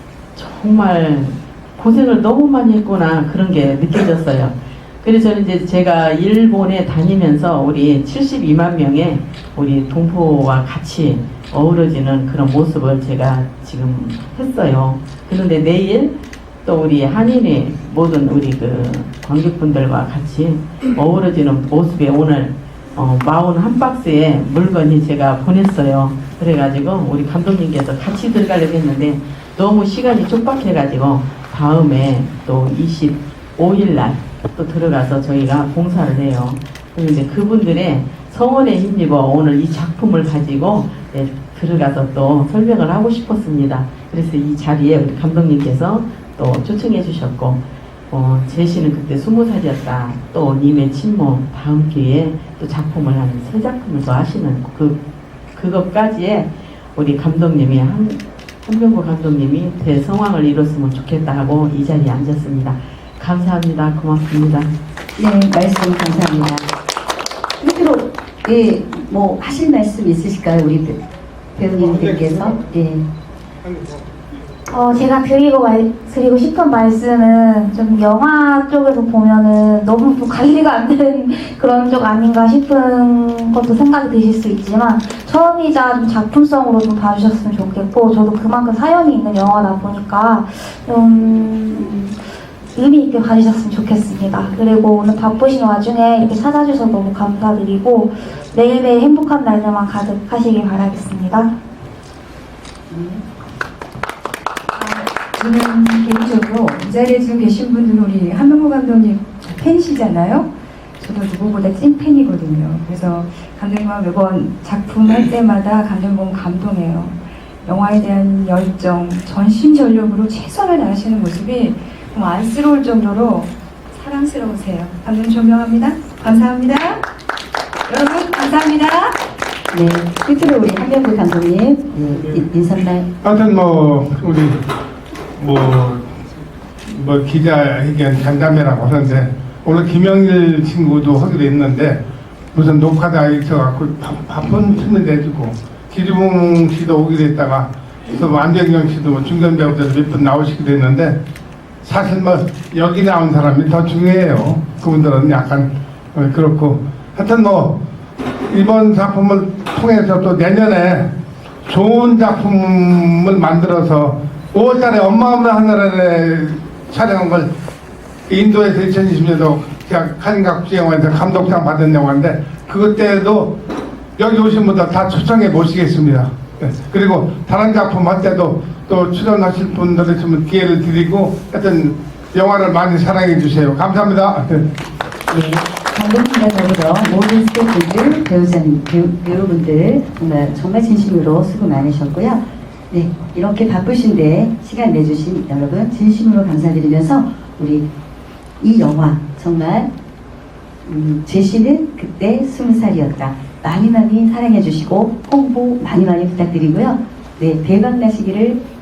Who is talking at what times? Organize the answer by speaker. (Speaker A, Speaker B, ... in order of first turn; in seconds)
Speaker A: 0.3-55.0, 55.5-64.7
Speaker B: 65.2-66.7, 67.6-71.0, 71.5-73.0, 102.9-103.2, 129.7-133.1, 185.3-197.9, 198.6-199.9, 200.8-208.6
Speaker C: 71.8-72.5, 73.6-74.0, 133.2-134.7, 135.3-136.1, 136.8-142.0, 142.5-151.2, 151.8-157.8, 158.5-161.1, 161.7-167.5, 168.3-173.6, 174.2-184.7
Speaker D: 74.7-92.2, 92.7-101.5
Speaker E: 104.7-127.0, 127.9-129.2